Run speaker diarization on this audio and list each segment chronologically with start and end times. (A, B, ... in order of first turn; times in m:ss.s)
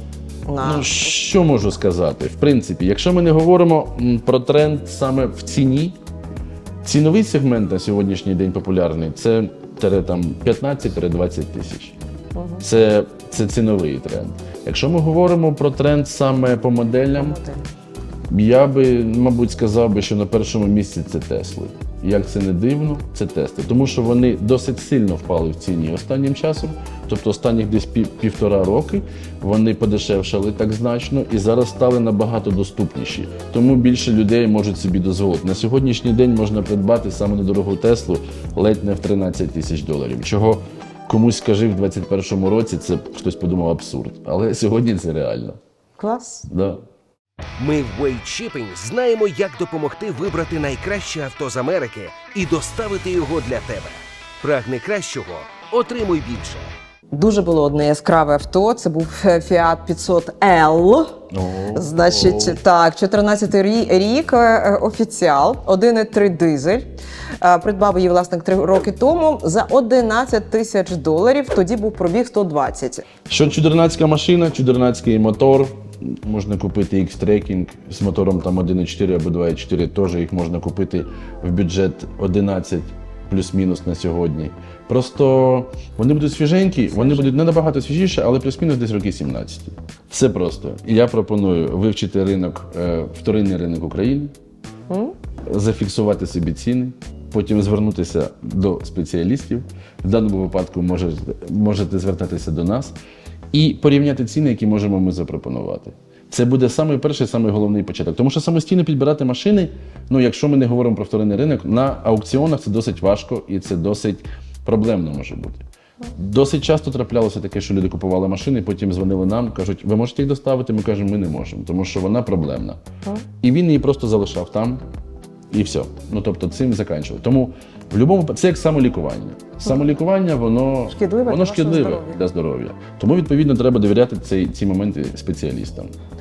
0:00.4-0:01.1 A
0:00.6-0:06.0 B
0:06.8-0:11.9 B
0:12.3-0:12.6 A
0:12.6-0:17.4 B
0:17.2-0:17.6 A
0:18.3-0:45.6 B
0:46.0-0:46.4 A
0:46.5-0:46.8 B
0:47.6-0:56.7 C
0:57.1-1:01.2 A
1:01.3-1:02.6 B
1:01.7-1:06.9 A
1:07.4-1:13.0 A
1:13.3-1:34.3 B
1:26.9-1:27.4 A
1:35.5-1:43.0 B
1:43.5-1:55.6 B
1:56.1-2:02.8 B
2:03.4-2:04.8 B
2:05.5-2:15.9 B
2:10.9-2:12.2 A